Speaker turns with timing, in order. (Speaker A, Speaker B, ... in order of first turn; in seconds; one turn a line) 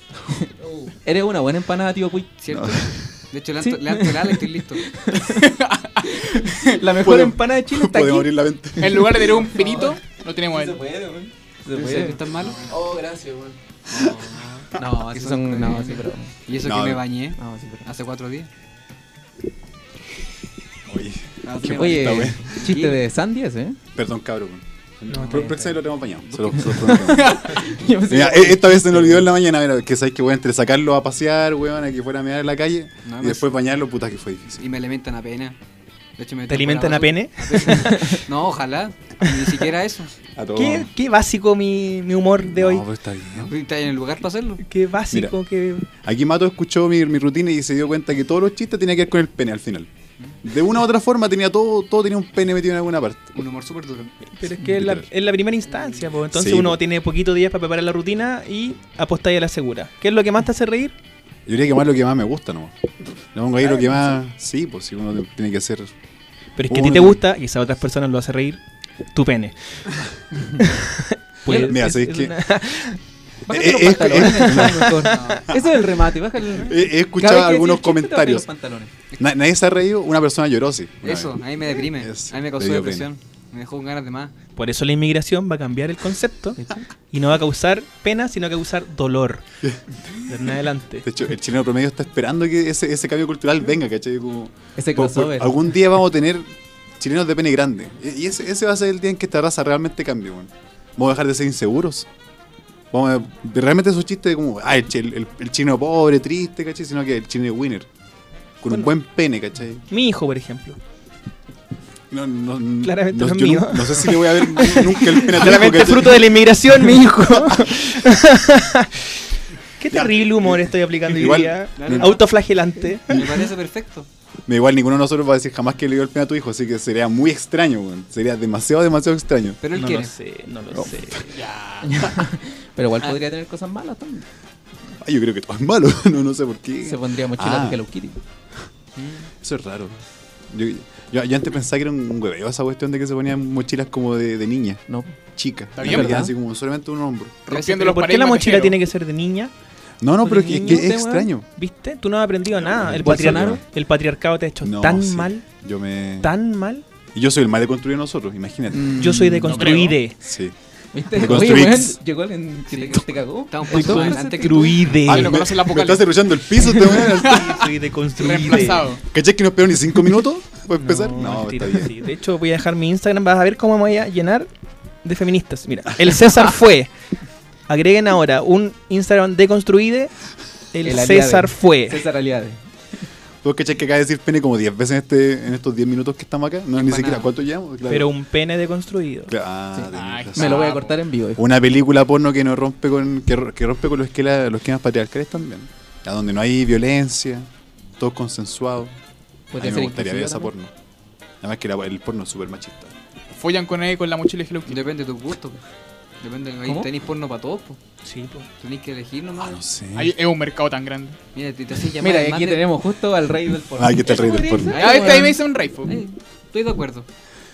Speaker A: 1.0-2.3
Speaker B: 2.4-4.8
Speaker C: 2.5-3.0
Speaker A: 3.6-13.6
Speaker D: 5.3-6.6
Speaker C: 6.9-9.2
Speaker D: 8.8-10.8
Speaker B: 11.7-12.7
Speaker D: 12.4-12.7
Speaker B: 13.9-18.5
Speaker A: 14.7-16.3
Speaker C: 16.6-17.1
Speaker A: 17.4-17.9
Speaker C: 20.9-22.5
Speaker B: 21.4-23.0
Speaker A: 21.6-23.8
Speaker C: 23.9-34.6
Speaker B: 25.1-25.5
Speaker A: 26.6-29.3
Speaker D: 27.1-27.5
Speaker B: 33.0-33.6
Speaker B: 34.6-35.5
Speaker B: 36.2-40.1
Speaker E: 36.5-38.2
Speaker C: 40.4-40.9
Speaker E: 40.5-42.8
Speaker C: 42.4-43.5
Speaker B: 43.3-44.6
Speaker E: 44.6-45.9
Speaker C: 46.0-49.9
Speaker C: 50.4-53.3
Speaker B: 53.3-54.1
Speaker E: 54.4-60.9
Speaker C: 54.6-55.1
Speaker C: 56.3-56.8
Speaker C: 61.5-65.9
Speaker E: 66.5-68.6
Speaker C: 66.7-67.2
Speaker E: 69.1-69.6
Speaker E: 70.6-73.0
Speaker C: 71.5-72.3
Speaker A: 71.5-71.7
Speaker A: 73.5-78.9
Speaker C: 73.5-75.7
Speaker E: 74.1-75.2
Speaker B: 75.1-75.5
Speaker C: 76.5-78.5
Speaker C: 79.2-81.4
Speaker B: 81.0-84.3
Speaker C: 81.9-83.1
Speaker E: 84.6-86.6
Speaker A: 86.5-86.8
Speaker E: 87.1-89.4
Speaker E: 90.3-91.0
Speaker C: 91.0-96.5
Speaker A: 94.8-95.7
Speaker C: 97.0-102.1
Speaker C: 102.9-107.9
Speaker C: 108.6-109.8
Speaker E: 109.9-110.8
Speaker C: 112.1-116.4
Speaker E: 112.8-119.0
Speaker C: 117.3-117.7
Speaker E: 119.8-123.2
Speaker C: 119.9-122.2
Speaker B: 121.8-122.2
Speaker B: 123.1-124.1
Speaker C: 123.1-123.5
Speaker C: 124.5-130.1
Speaker B: 129.6-130.1
Speaker E: 129.8-131.2
Speaker D: 131.3-132.1
Speaker A: 131.8-134.2
Speaker C: 135.0-137.8
Speaker A: 136.8-138.2
Speaker B: 138.9-139.3
Speaker C: 139.4-144.8
Speaker A: 144.9-145.2
Speaker C: 145.3-147.4
Speaker D: 145.7-146.3
Speaker A: 145.8-146.3
Speaker D: 147.5-148.8
Speaker B: 147.5-147.8
Speaker E: 147.7-149.5
Speaker C: 150.0-151.5
Speaker A: 150.2-151.3
Speaker E: 150.3-155.4
Speaker C: 152.7-153.6
Speaker A: 153.0-153.6
Speaker C: 154.6-156.3
Speaker E: 156.2-156.8
Speaker C: 157.1-159.3
Speaker A: 158.7-159.7
Speaker E: 158.9-160.2
Speaker D: 159.5-160.0
Speaker C: 160.2-160.5
Speaker A: 160.9-164.6
Speaker C: 161.1-162.0
Speaker B: 162.7-164.9
Speaker E: 163.7-165.4
Speaker D: 165.0-167.6
Speaker C: 165.1-167.6
Speaker E: 166.9-168.9
Speaker D: 168.2-169.0
Speaker C: 169.0-171.9
Speaker E: 170.8-174.5
Speaker E: 175.0-176.9
Speaker E: 177.7-180.1
Speaker E: 180.7-182.0
Speaker A: 180.8-182.6
Speaker C: 183.4-188.1
Speaker B: 186.7-187.3
Speaker E: 187.8-189.3
Speaker C: 189.3-190.7
Speaker A: 189.7-191.4
Speaker D: 189.9-190.9
Speaker C: 191.3-198.9
Speaker A: 199.5-200.5
Speaker C: 199.6-200.7
Speaker C: 201.4-202.9
Speaker D: 203.4-204.8
Speaker B: 204.7-205.6
Speaker B: 206.2-207.8
Speaker E: 208.0-208.5
Speaker B: 208.6-209.6
Speaker C: 209.3-210.1
Speaker D: 209.9-211.2
Speaker B: 211.3-212.7
Speaker A: 212.0-215.4
Speaker C: 213.8-214.8
Speaker D: 214.7-216.0
Speaker B: 214.8-215.2
Speaker B: 215.8-217.1